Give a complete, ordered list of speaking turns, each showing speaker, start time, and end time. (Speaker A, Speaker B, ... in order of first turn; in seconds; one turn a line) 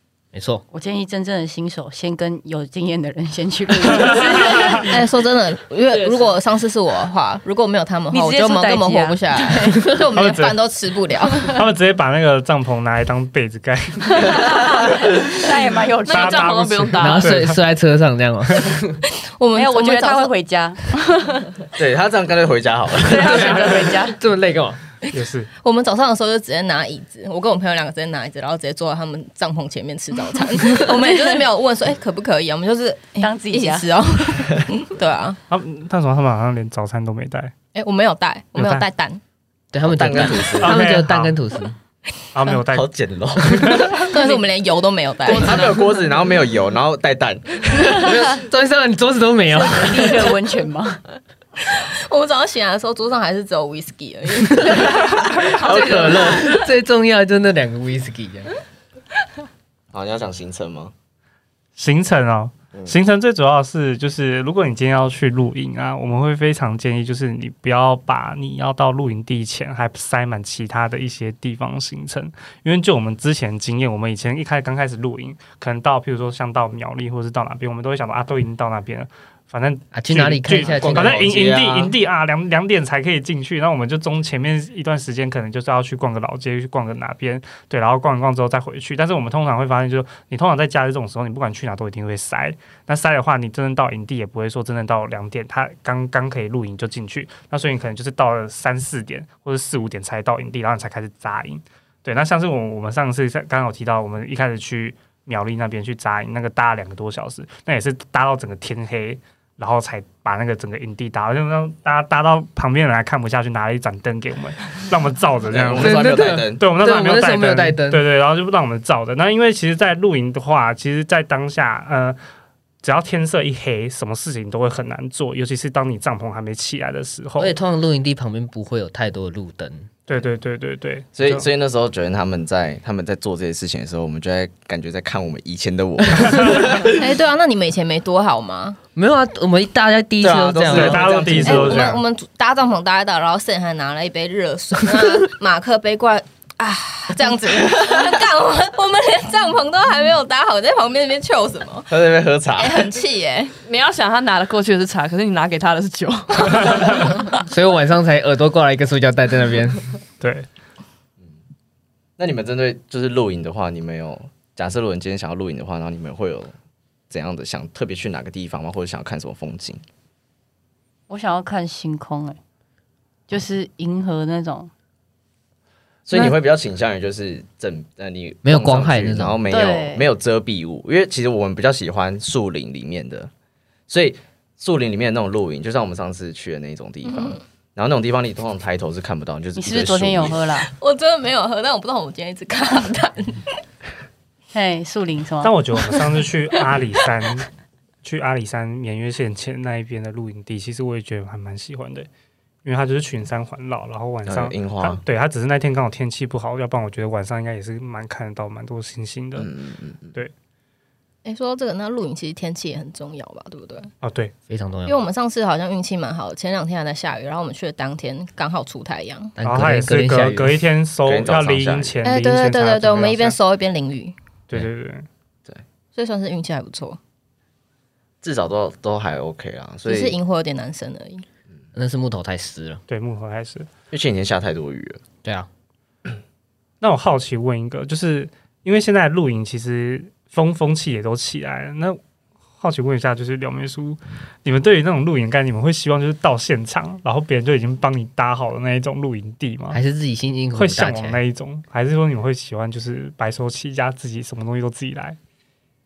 Speaker A: 0.3-0.6
Speaker B: 0.7-4.9
Speaker C: 4.3-4.8
Speaker D: 4.7-11.5
Speaker B: 8.1-9.9
Speaker C: 10.1-10.6
Speaker C: 11.5-14.8
Speaker B: 14.3-16.6
Speaker E: 16.0-17.3
Speaker C: 16.1-17.6
Speaker A: 17.0-19.0
Speaker D: 19.4-20.3
Speaker B: 19.5-21.4
Speaker F: 21.8-23.6
Speaker B: 23.0-24.2
Speaker A: 23.2-24.8
Speaker C: 25.1-25.5
Speaker D: 25.6-35.4
Speaker B: 30.8-31.4
Speaker B: 33.2-34.0
Speaker C: 35.5-37.5
Speaker D: 37.7-39.2
Speaker C: 38.5-38.8
Speaker A: 39.7-41.8
Speaker F: 39.8-40.8
Speaker C: 40.6-41.4
Speaker C: 42.3-42.9
Speaker F: 42.7-44.1
Speaker C: 43.4-44.1
Speaker D: 44.0-45.7
Speaker F: 45.2-48.2
Speaker A: 47.9-50.3
Speaker B: 49.5-51.0
Speaker D: 51.6-55.5
Speaker F: 55.5-56.6
Speaker A: 55.7-58.5
Speaker F: 59.9-60.9
Speaker C: 61.8-116.0
Speaker A: 79.9-81.3
Speaker F: 80.6-81.9
Speaker F: 115.5-116.6
Speaker A: 115.8-118.0
Speaker C: 116.5-122.2
Speaker C: 122.8-127.5
Speaker A: 127.4-129.9
Speaker C: 130.1-131.5
Speaker F: 131.1-136.9
Speaker C: 136.2-136.7
Speaker D: 136.9-138.8
Speaker A: 138.9-141.6
Speaker F: 140.2-141.9
Speaker C: 140.7-142.0
Speaker D: 141.4-152.0
Speaker F: 151.9-152.9
Speaker D: 152.6-153.5
Speaker E: 153.6-157.2
Speaker A: 157.4-159.8
Speaker C: 160.2-160.5
Speaker F: 162.2-166.5
Speaker F: 167.1-169.8
Speaker B: 171.1-172.4
Speaker B: 173.3-174.7
Speaker F: 176.1-183.3
Speaker A: 178.4-179.4
Speaker B: 179.5-180.0
Speaker F: 183.9-190.4
Speaker D: 187.1-187.4
Speaker B: 189.6-190.7
Speaker D: 190.6-193.5
Speaker B: 194.5-195.5
Speaker C: 195.4-197.5
Speaker C: 198.0-202.1
Speaker C: 202.6-209.5
Speaker F: 204.2-205.0
Speaker F: 209.4-210.1
Speaker D: 211.2-213.9
Speaker C: 214.0-214.3
Speaker A: 214.5-215.0
Speaker D: 214.8-219.3
Speaker A: 219.4-220.6
Speaker C: 219.4-223.4
Speaker F: 221.0-221.9
Speaker D: 222.0-224.1
Speaker C: 224.5-225.1
Speaker D: 225.9-227.0
Speaker F: 228.2-230.2
Speaker D: 229.8-231.2
Speaker A: 231.7-232.8
Speaker C: 232.9-233.7
Speaker F: 233.9-235.0
Speaker C: 236.8-242.0
Speaker C: 242.6-249.8
Speaker A: 249.7-251.2
Speaker C: 250.5-255.2